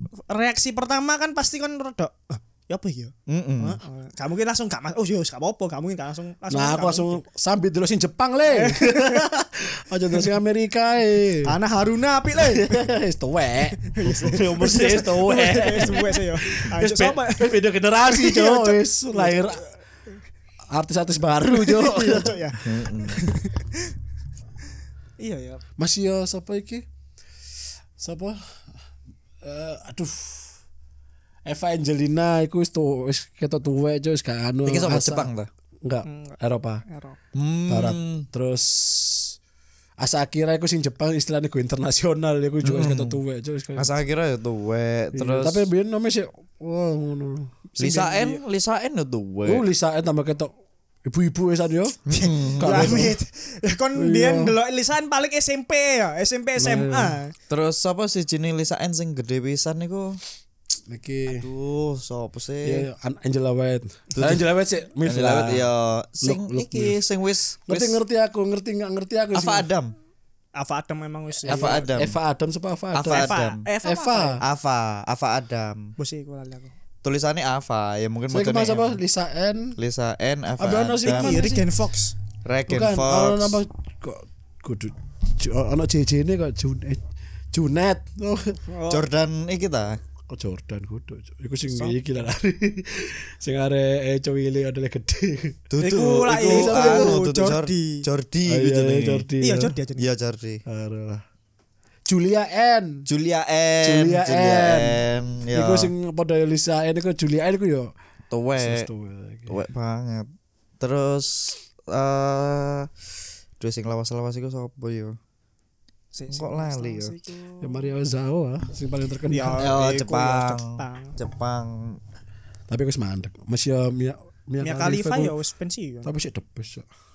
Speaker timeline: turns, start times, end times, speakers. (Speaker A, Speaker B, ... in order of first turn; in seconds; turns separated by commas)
Speaker A: 0.3-7.2, Speaker B: 3.3-3.8, Speaker C: 6.5-11.6, Speaker A: 8.5-9.3, Speaker A: 11.4-12.8, Speaker C: 12.4-19.6, Speaker A: 13.8-19.6, Speaker C: 20.7-22.5, Speaker A: 21.5-23.9, Speaker B: 22.6-23.2, Speaker A: 25.2-25.6, Speaker C: 25.8-26.9, Speaker C: 28.0-28.4, Speaker C: 29.4-30.6, Speaker C: 31.5-35.3, Speaker B: 34.6-35.5, Speaker C: 35.8-36.8, Speaker A: 36.0-37.2, Speaker B: 37.3-38.3, Speaker C: 37.7-39.4, Speaker C: 40.0-43.9, Speaker B: 42.6-43.2, Speaker B: 43.8-45.7, Speaker C: 45.1-47.5, Speaker A: 47.7-48.4, Speaker B: 47.8-49.7, Speaker C: 49.5-50.5, Speaker C: 51.1-52.0, Speaker B: 52.1-53.1, Speaker A: 52.1-57.3, Speaker C: 52.6-53.2, Speaker C: 54.0-54.5, Speaker C: 56.6-57.2, Speaker B: 57.5-60.2, Speaker C: 60.9-61.5, Speaker B: 61.3-62.9, Speaker C: 62.6-65.7, Speaker B: 64.2-64.5, Speaker B: 65.0-68.0, Speaker C: 66.2-67.0, Speaker C: 67.7-69.7, Speaker B: 69.3-69.9, Speaker A: 70.6-71.8, Speaker B: 71.5-72.2, Speaker C: 71.5-74.4, Speaker B: 72.9-73.7, Speaker A: 73.1-74.4, Speaker B: 74.4-75.9, Speaker A: 76.0-76.7, Speaker B: 77.0-79.0, Speaker C: 78.3-79.8, Speaker B: 79.8-81.4, Speaker C: 80.6-81.7, Speaker A: 81.0-82.2, Speaker B: 82.5-83.6, Speaker C: 82.7-88.6, Speaker A: 88.7-89.0, Speaker B: 88.9-90.0, Speaker C: 90.3-95.6, Speaker B: 95.7-99.3, Speaker A: 95.8-98.0, Speaker C: 96.2-97.2, Speaker C: 98.5-99.7, Speaker A: 99.4-100.1, Speaker B: 100.0-100.6, Speaker C: 100.7-101.2, Speaker C: 102.1-103.1, Speaker B: 103.1-105.9, Speaker C: 103.8-105.0, Speaker C: 105.5-107.9, Speaker B: 108.3-108.9, Speaker C: 108.6-109.6, Speaker B: 109.5-110.3, Speaker B: 110.8-112.9, Speaker B: 113.6-115.2, Speaker A: 116.1-117.9, Speaker B: 116.3-117.1, Speaker C: 117.6-119.7, Speaker A: 119.3-121.2, Speaker B: 119.6-122.0, Speaker C: 122.7-125.3, Speaker A: 124.6-126.1, Speaker C: 126.0-126.9